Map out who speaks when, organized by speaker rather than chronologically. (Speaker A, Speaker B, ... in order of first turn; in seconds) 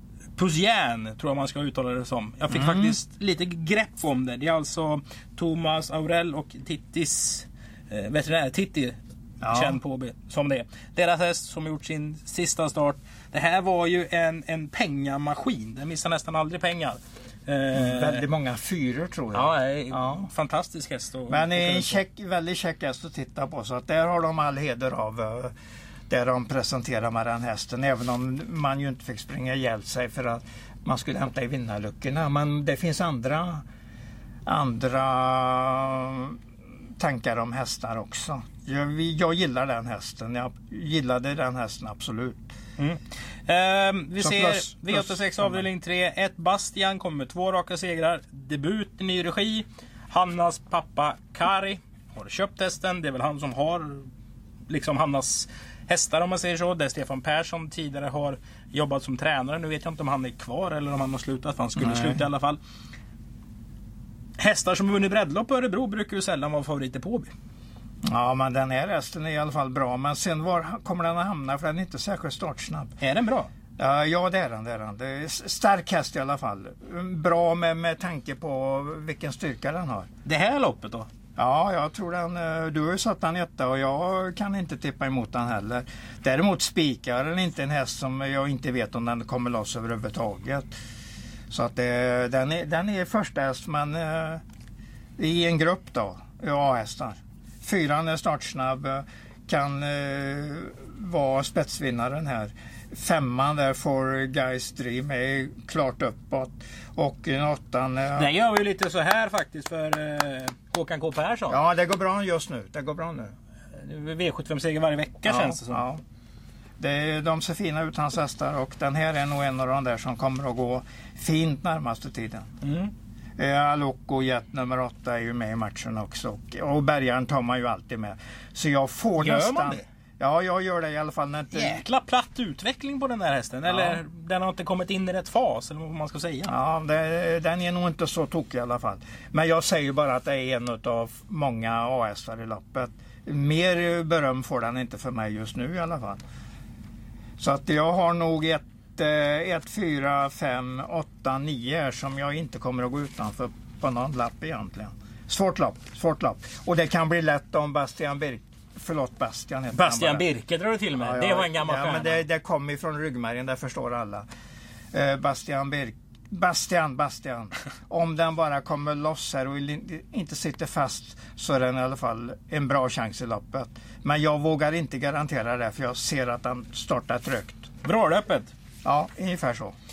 Speaker A: 0.4-18.2, 19.3-22.0, 42.8-54.1, 54.7-62.6, 64.4-67.3, 73.0-73.5, 80.2-81.1, 108.2-111.6, 113.7-115.8, 122.6-122.9, 129.2-129.8, 131.5-136.5, 159.7-162.2, 177.8-178.5
Speaker B: 2.5-3.0, 9.4-9.8, 17.8-20.3, 21.3-25.5, 26.1-33.6, 34.5-36.4, 37.0-42.5, 44.2-45.6, 61.8-62.2, 68.1-73.0, 73.8-80.1, 81.4-90.7, 91.5-94.4, 95.2-108.3, 111.5-113.3, 115.3-116.0, 116.8-122.5, 123.4-131.8, 133.7-134.0, 136.5-146.2, 147.4-160.3, 161.0-164.3, 164.9-177.7, 178.8-179.7